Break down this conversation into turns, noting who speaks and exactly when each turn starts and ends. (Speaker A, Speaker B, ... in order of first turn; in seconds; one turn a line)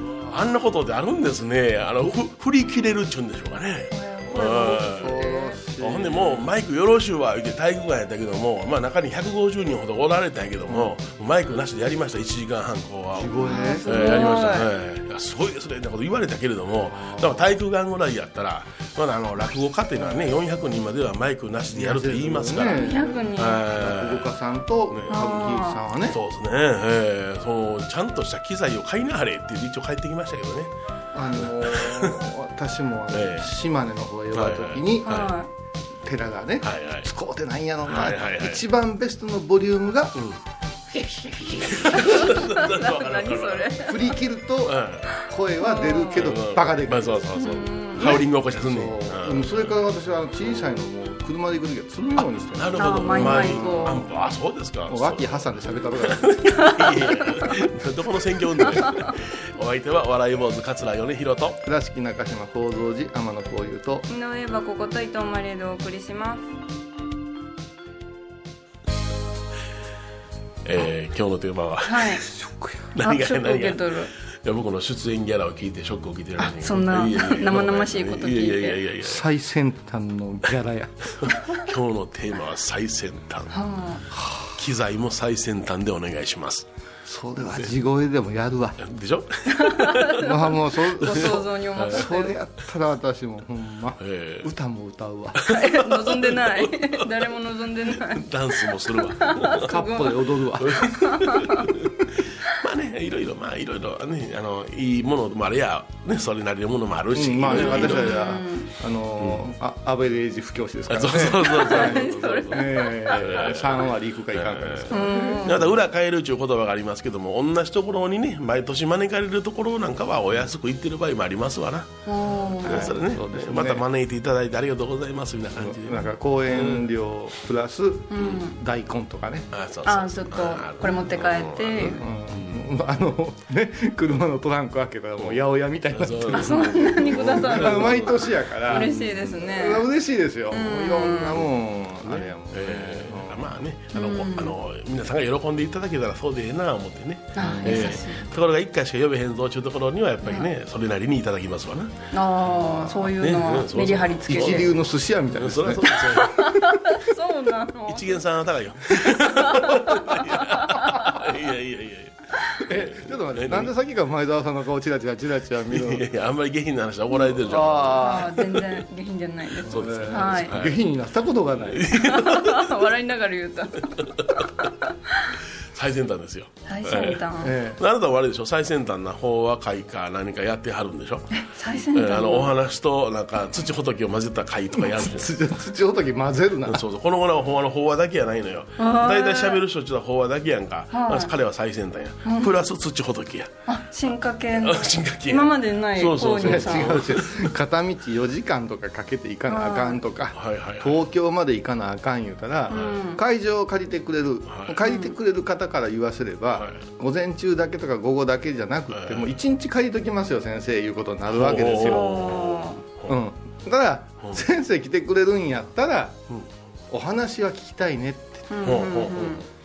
Speaker A: 0.2-13.3
Speaker B: 3.9-5.6
Speaker C: 4.3-6.5
Speaker C: 10.7-10.9
Speaker C: 13.1-14.3
Speaker B: 13.4-14.7
Speaker A: 13.8-22.8
Speaker C: 16.9-17.5
Speaker C: 19.9-20.4
Speaker C: 21.7-26.2
Speaker B: 22.7-23.7
Speaker A: 23.3-24.3
Speaker A: 24.9-25.4
Speaker B: 25.1-25.8
Speaker A: 26.1-30.7
Speaker C: 31.1-35.2
Speaker A: 31.3-32.2
Speaker A: 33.1-33.5
Speaker A: 34.3-35.3
Speaker B: 35.0-35.5
Speaker C: 36.0-40.2
Speaker A: 36.6-37.1
Speaker A: 37.9-38.6
Speaker A: 41.5-44.0
Speaker C: 41.9-42.3
Speaker B: 42.3-44.0
Speaker C: 43.9-47.2
Speaker A: 44.6-45.1
Speaker B: 45.6-46.2
Speaker A: 46.1-49.8
Speaker B: 47.4-48.2
Speaker C: 48.0-54.1
Speaker A: 52.2-61.6
Speaker B: 52.8-54.0
Speaker C: 54.9-56.7
Speaker B: 58.8-59.1
Speaker C: 61.6-64.1
Speaker B: 64.1-66.4
Speaker A: 70.7-72.2
Speaker B: 71.8-72.2
Speaker C: 72.2-72.9
Speaker A: 72.9-73.9
Speaker B: 73.0-74.1
Speaker A: 74.4-79.2
Speaker B: 76.4-78.8
Speaker C: 79.0-81.2
Speaker A: 81.2-83.6
Speaker B: 83.5-84.1
Speaker C: 84.1-84.5
Speaker A: 84.5-86.7
Speaker C: 87.0-88.8
Speaker A: 88.8-90.3
Speaker B: 89.5-92.3
Speaker C: 90.2-95.5
Speaker A: 91.0-92.1
Speaker A: 94.0-94.5
Speaker A: 95.4-97.2
Speaker B: 95.5-98.2
Speaker A: 98.0-99.7
Speaker B: 99.2-100.2
Speaker C: 99.5-101.0
Speaker A: 100.6-108.2
Speaker B: 101.1-101.6
Speaker C: 107.1-115.8
Speaker B: 107.5-108.7
Speaker A: 110.9-122.0
Speaker B: 111.5-113.1
Speaker B: 114.9-115.5
Speaker B: 122.0-122.9
Speaker A: 122.6-126.8
Speaker C: 122.6-123.8
Speaker C: 125.6-129.5
Speaker B: 128.1-128.6
Speaker A: 129.5-132.7
Speaker B: 129.8-132.0
Speaker C: 131.8-143.5
Speaker A: 135.9-139.0
Speaker B: 136.3-139.9
Speaker B: 140.5-141.4
Speaker A: 142.1-152.0
Speaker B: 143.9-144.5
Speaker B: 147.3-148.2
Speaker C: 147.4-148.0
Speaker B: 150.2-150.5
Speaker B: 152.1-154.7
Speaker A: 152.6-154.7
Speaker C: 154.3-156.0
Speaker A: 155.3-156.5
Speaker B: 156.2-158.2
Speaker A: 157.9-163.7
Speaker B: 159.3-161.0
Speaker C: 162.7-166.0
Speaker A: 165.7-168.8
Speaker C: 167.4-168.4
Speaker B: 168.0-170.5
Speaker C: 169.6-171.9
Speaker A: 169.7-170.8
Speaker A: 171.7-172.7
Speaker B: 171.9-173.9
Speaker A: 175.7-181.3
Speaker B: 176.7-177.5
Speaker C: 177.4-177.8
Speaker B: 181.4-182.5
Speaker A: 181.9-185.3
Speaker C: 184.7-186.8
Speaker A: 186.7-193.5
Speaker B: 188.8-189.6
Speaker B: 190.9-191.3
Speaker B: 192.2-192.5
Speaker B: 193.7-197.0
Speaker A: 194.6-197.5
Speaker C: 196.3-212.4
Speaker B: 199.5-200.0
Speaker A: 200.3-201.0
Speaker A: 202.7-203.0
Speaker B: 202.7-203.2
Speaker A: 204.5-204.8
Speaker B: 204.8-205.1
Speaker A: 206.6-206.8
Speaker A: 208.9-209.3
Speaker A: 211.3-213.2
Speaker B: 211.8-212.8
Speaker C: 213.1-216.2
Speaker C: 216.9-218.7
Speaker B: 218.5-219.4
Speaker A: 218.6-219.4